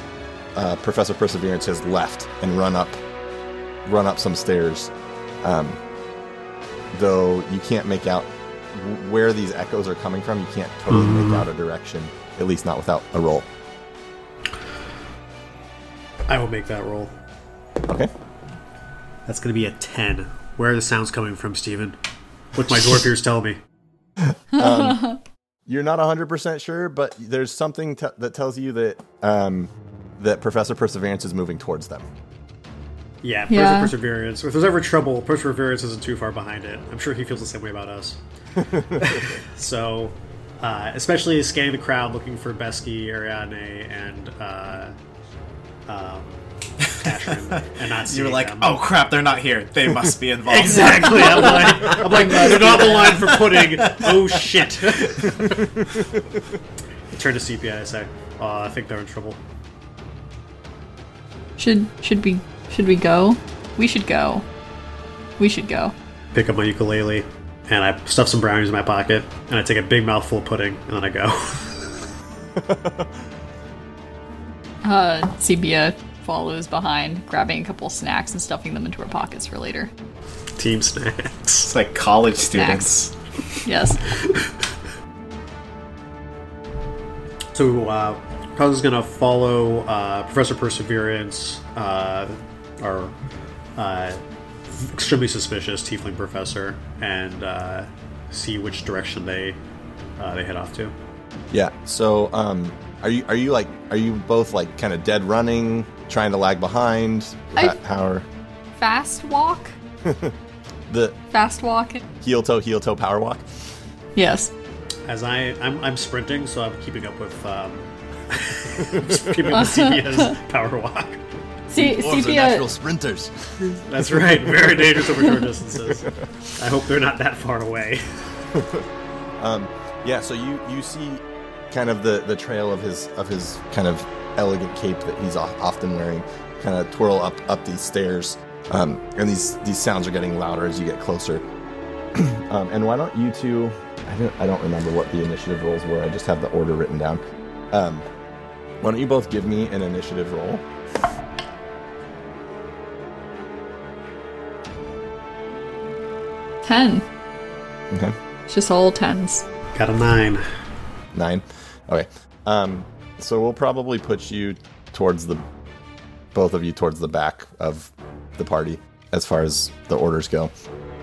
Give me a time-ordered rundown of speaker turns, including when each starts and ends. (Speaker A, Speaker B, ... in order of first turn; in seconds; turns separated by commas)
Speaker A: 0.6-3.0, Speaker A: 3.9-4.9, Speaker A: 5.4-5.8, Speaker A: 6.9-13.5, Speaker B: 10.9-11.5, Speaker B: 16.3-17.1, Speaker B: 19.2-22.0, Speaker B: 22.5-23.6, Speaker A: 24.5-25.1, Speaker C: 24.6-25.2, Speaker A: 25.7-32.1, Speaker B: 33.2-38.2, Speaker C: 33.5-33.9, Speaker A: 38.6-39.4, Speaker B: 39.0-45.0, Speaker B: 45.9-48.8, Speaker D: 46.9-55.5, Speaker B: 50.5-55.8, Speaker C: 51.0-51.4, Speaker B: 57.1-59.4, Speaker C: 61.6-64.5, Speaker C: 65.4-65.9, Speaker B: 66.3-72.1, Speaker A: 72.6-73.1, Speaker C: 74.8-79.9, Speaker B: 80.6-81.7, Speaker D: 81.6-83.1, Speaker C: 82.5-82.9, Speaker C: 83.6-84.0, Speaker B: 84.1-84.7, Speaker B: 87.5-93.1, Speaker B: 93.8-99.6, Speaker B: 100.2-101.0, Speaker A: 101.5-108.3, Speaker C: 108.8-109.8, Speaker A: 110.0-110.3, Speaker A: 110.9-111.2, Speaker C: 111.3-112.0, Speaker A: 112.2-113.6, Speaker C: 114.2-114.5, Speaker B: 115.0-121.6, Speaker A: 119.0-119.3, Speaker C: 119.5-120.4, Speaker C: 121.7-122.7, Speaker A: 121.7-125.4, Speaker B: 123.8-128.5, Speaker A: 128.6-128.8, Speaker A: 129.4-141.4, Speaker A: 142.1-148.1, Speaker A: 148.8-150.6, Speaker C: 156.6-157.1, Speaker C: 158.5-159.4, Speaker B: 159.7-160.6, Speaker A: 161.1-165.4, Speaker A: 166.3-170.5